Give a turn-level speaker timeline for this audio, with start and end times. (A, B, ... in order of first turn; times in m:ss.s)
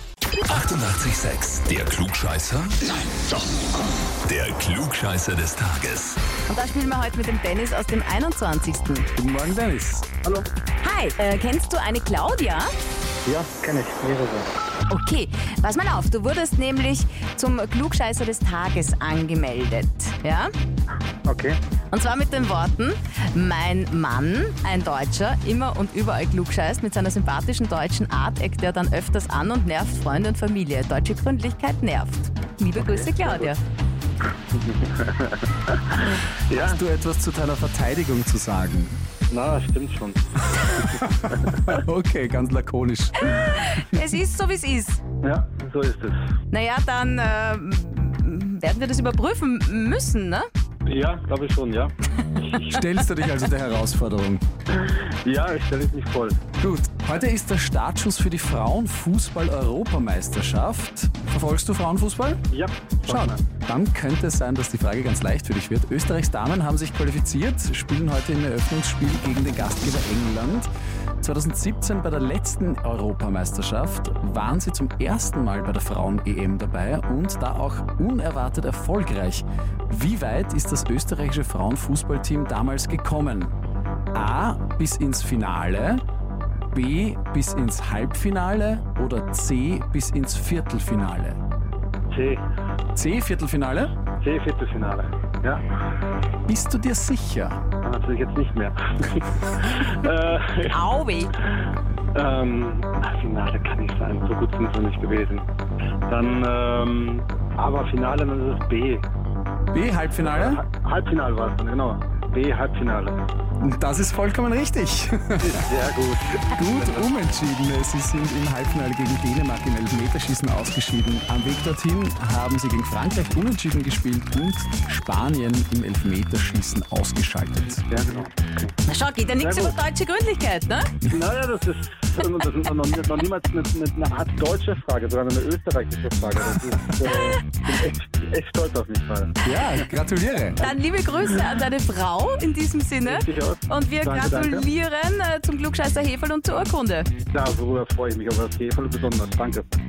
0:00.4-0:03.0 A
0:04.2-0:06.2 A
0:06.5-0:09.1 B
0:09.2-0:10.1 C
0:10.8-0:12.7 B
0:13.2-0:14.5 D
0:14.9-0:20.5 B
0:21.2-0:21.6 D
0:21.9-0:33.6 B
0:32.8-0:33.5 D
0:34.5-0:36.8 D
0:36.5-0:39.0 C
0:39.3-0:41.6 D
0:41.0-0:44.0 C
0:43.2-0:45.0 B
0:45.2-0:46.2 D
0:46.5-0:50.5 B
0:50.8-0:52.8 D
0:52.6-0:54.4 C
0:54.7-0:56.4 D
0:56.6-1:02.4 C
1:02.5-1:03.4 D
1:03.0-1:10.7 C
1:11.2-1:23.5 C
1:24.1-1:26.0 C
1:26.7-1:31.4 C
1:32.1-1:32.4 D
1:32.9-1:33.9 C
1:34.2-1:35.6 D
1:36.5-1:37.6 C
1:37.8-1:40.8 D
1:40.7-1:41.3 B
1:42.1-1:45.5 D
1:46.1-1:49.0 D
1:49.7-1:50.6 C
1:50.2-1:53.2 D
1:53.6-1:55.5 C
1:55.4-1:57.1 D
1:56.5-2:07.8 C
2:07.9-2:08.7 D
2:08.8-2:10.9 B
2:09.4-2:09.8 D
2:11.0-2:19.4 D
2:17.1-2:17.4 B
2:19.4-2:20.7 C
2:20.6-2:27.1 B
2:23.0-2:24.7 D
2:27.3-2:29.7 D